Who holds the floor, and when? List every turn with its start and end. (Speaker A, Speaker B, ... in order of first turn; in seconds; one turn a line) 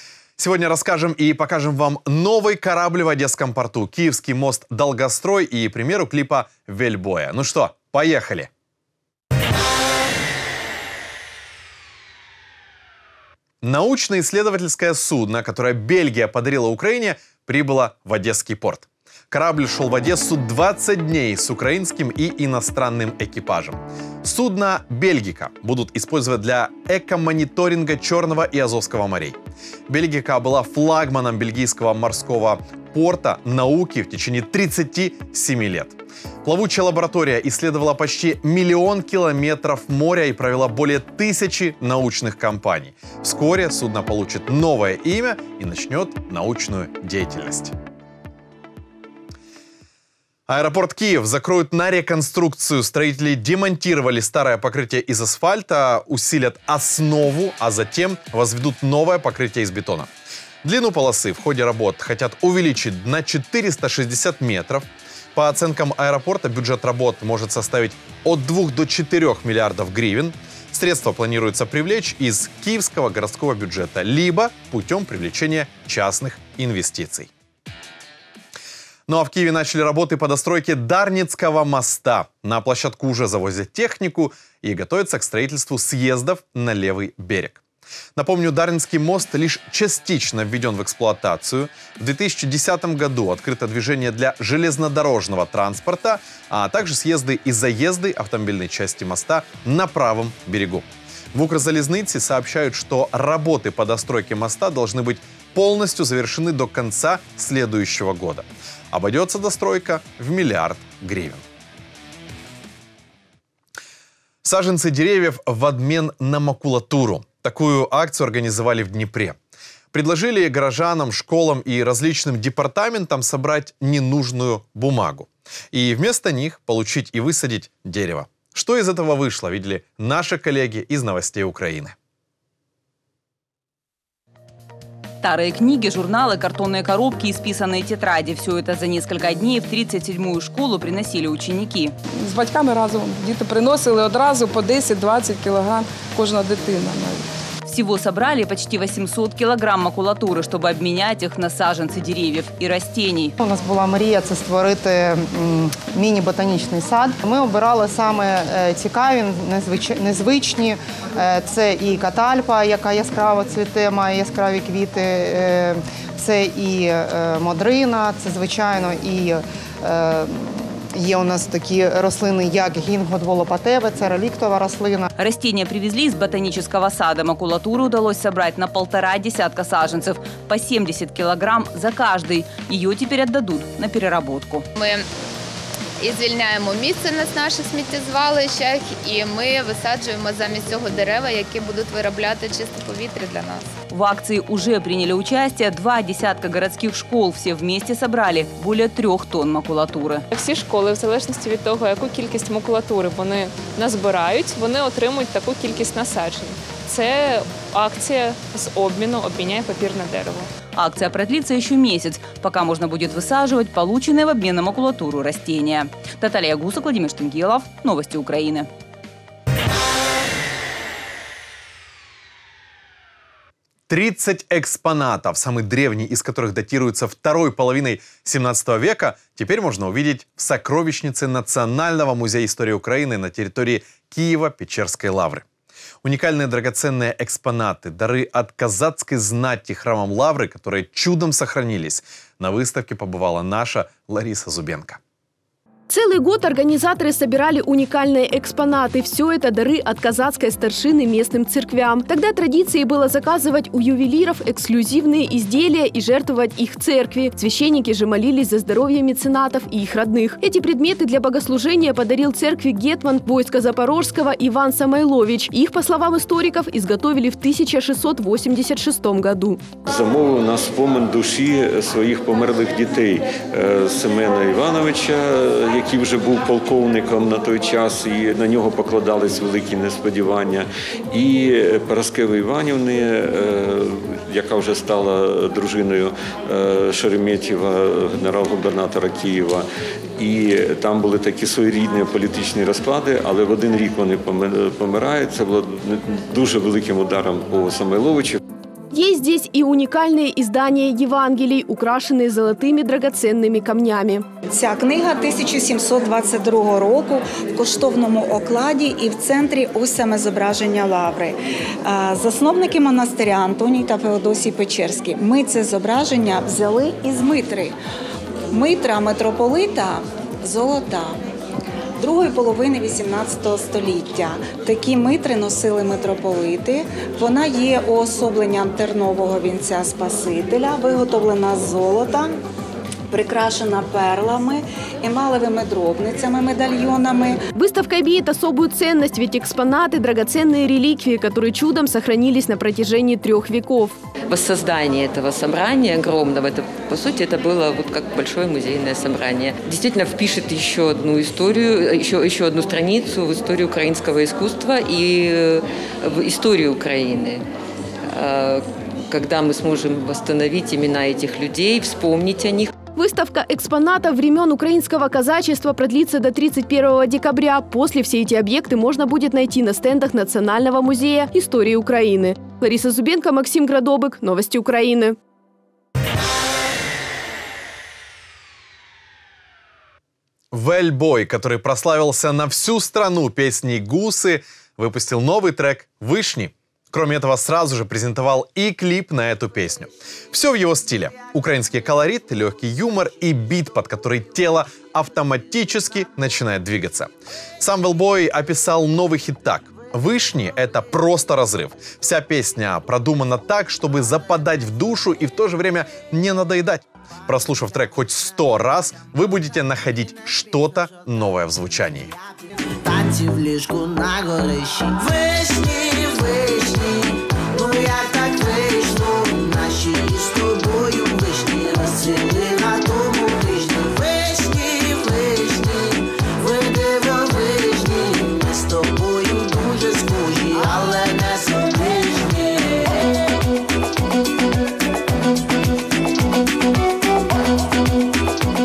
Speaker A: 0.4-8.5
Speaker A: 13.6-29.4
Speaker A: 29.9-47.8
Speaker A: 50.5-60.1
Speaker A: 60.6-77.3
Speaker A: 79.1-87.6
Speaker A: 88.2-111.4
Speaker A: 114.4-119.4
Speaker A: 119.9-131.9
Speaker B: 135.2-141.9
Speaker C: 142.2-147.3
Speaker B: 147.7-153.3
Speaker D: 153.4-175.1
Speaker B: 175.2-184.7
Speaker E: 186.0-193.6
Speaker B: 193.9-200.2
Speaker F: 200.3-210.5
Speaker B: 210.8-218.7
Speaker A: 223.9-235.4
Speaker A: 236.0-245.0
Speaker G: 245.9-269.6
Speaker H: 269.9-289.6
Speaker H: 290.2-298.4
Speaker G: 298.9-304.2
Speaker I: 304.5-317.8
Speaker I: 318.5-321.2
Speaker I: 322.0-332.3
Speaker I: 333.1-337.4
Speaker G: 337.6-343.9
Speaker J: 344.3-357.4
Speaker J: 358.1-362.7
Speaker G: 362.9-375.2
Speaker A: 380.5-412.1
Speaker K: 412.8-433.3